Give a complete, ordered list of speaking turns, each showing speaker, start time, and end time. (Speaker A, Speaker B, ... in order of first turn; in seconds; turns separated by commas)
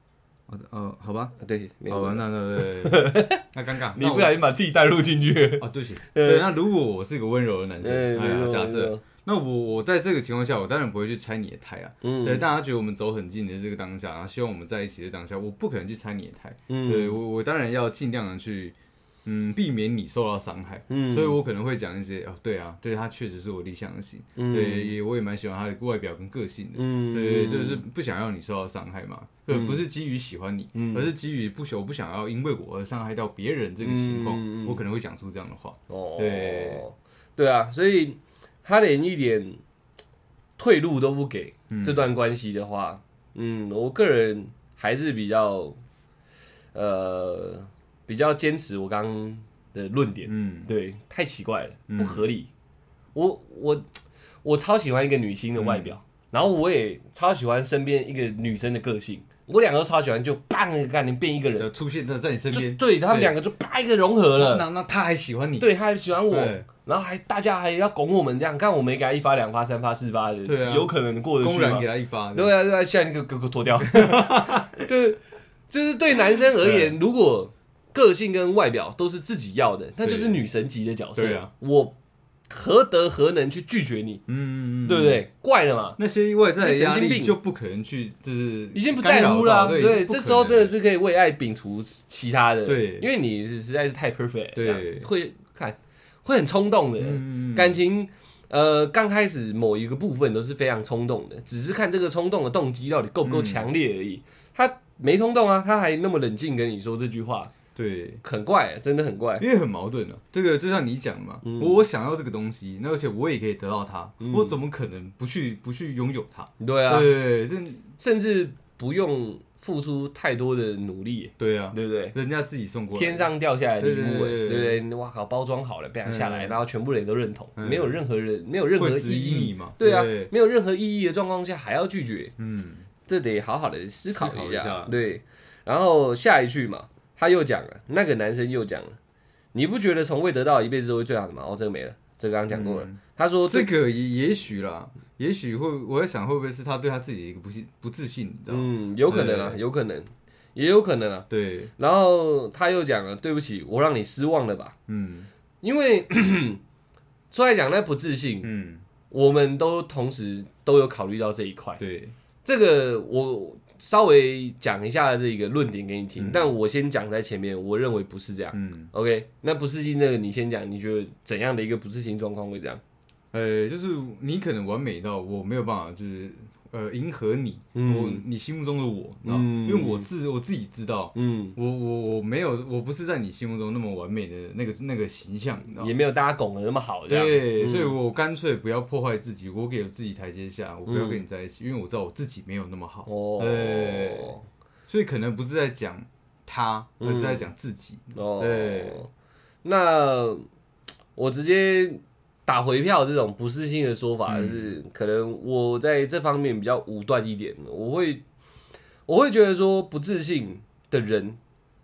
Speaker A: 0.5-1.4, Speaker B: 1.4-3.4, Speaker A: 1.9-4.4, Speaker B: 3.9-6.5, Speaker A: 5.6-36.8, Speaker B: 7.8-9.0, Speaker B: 12.0-12.5, Speaker B: 16.7-17.2, Speaker B: 20.9-21.4, Speaker B: 24.4-25.0, Speaker B: 26.8-27.8, Speaker B: 29.5-29.8, Speaker B: 30.8-31.1, Speaker B: 33.8-34.8, Speaker B: 35.9-39.6, Speaker B: 40.6-45.8, Speaker A: 41.7-42.1, Speaker B: 46.7-52.5, Speaker A: 50.3-50.7, Speaker A: 51.9-52.2, Speaker B: 53.1-53.9, Speaker B: 54.4-61.7, Speaker A: 55.6-55.9, Speaker A: 61.6-63.3, Speaker B: 62.5-64.7, Speaker A: 64.3-65.7, Speaker B: 65.6-82.0, Speaker A: 66.3-66.7, Speaker A: 70.5-72.5, Speaker A: 73.9-74.8, Speaker A: 76.6-77.0, Speaker A: 80.0-80.4, Speaker A: 81.2-81.5, Speaker B: 82.5-84.2, Speaker A: 84.3-85.2, Speaker B: 84.8-86.0, Speaker A: 86.0-90.7, Speaker B: 86.6-87.4, Speaker B: 88.8-107.5, Speaker A: 92.7-93.1, Speaker A: 94.5-95.1, Speaker A: 97.0-97.8, Speaker A: 103.2-103.7, Speaker A: 107.8-108.2, Speaker B: 108.2-109.4, Speaker A: 109.4-117.9, Speaker B: 111.4-111.8, Speaker B: 114.2-114.5, Speaker B: 116.6-117.1, Speaker B: 118.0-122.2, Speaker A: 121.4-124.8, Speaker B: 122.9-132.3, Speaker A: 126.0-126.6, Speaker A: 127.6-128.0, Speaker A: 128.8-130.3, Speaker A: 132.4-132.9, Speaker B: 133.1-139.0, Speaker A: 134.1-134.9, Speaker B: 139.5-143.7, Speaker A: 142.5-149.6, Speaker B: 148.5-154.8, Speaker A: 151.3-151.7, Speaker A: 154.9-155.3, Speaker B: 155.6-156.6, Speaker B: 157.3-158.5, Speaker A: 158.4-158.8, Speaker B: 159.1-161.8, Speaker A: 161.8-162.2, Speaker B: 162.4-172.8, Speaker A: 166.2-166.5, Speaker A: 168.5-168.9, Speaker A: 173.3-185.9, Speaker B: 177.8-178.2, Speaker B: 179.2-180.1, Speaker B: 181.2-181.6, Speaker B: 185.8-188.0, Speaker A: 187.1-194.3, Speaker B: 190.9-191.2, Speaker B: 193.1-194.4, Speaker A: 194.9-199.0, Speaker B: 197.0-197.5, Speaker B: 198.2-199.1, Speaker B: 199.6-200.4, Speaker B: 201.2-208.2, Speaker A: 204.3-204.7, Speaker B: 209.1-211.4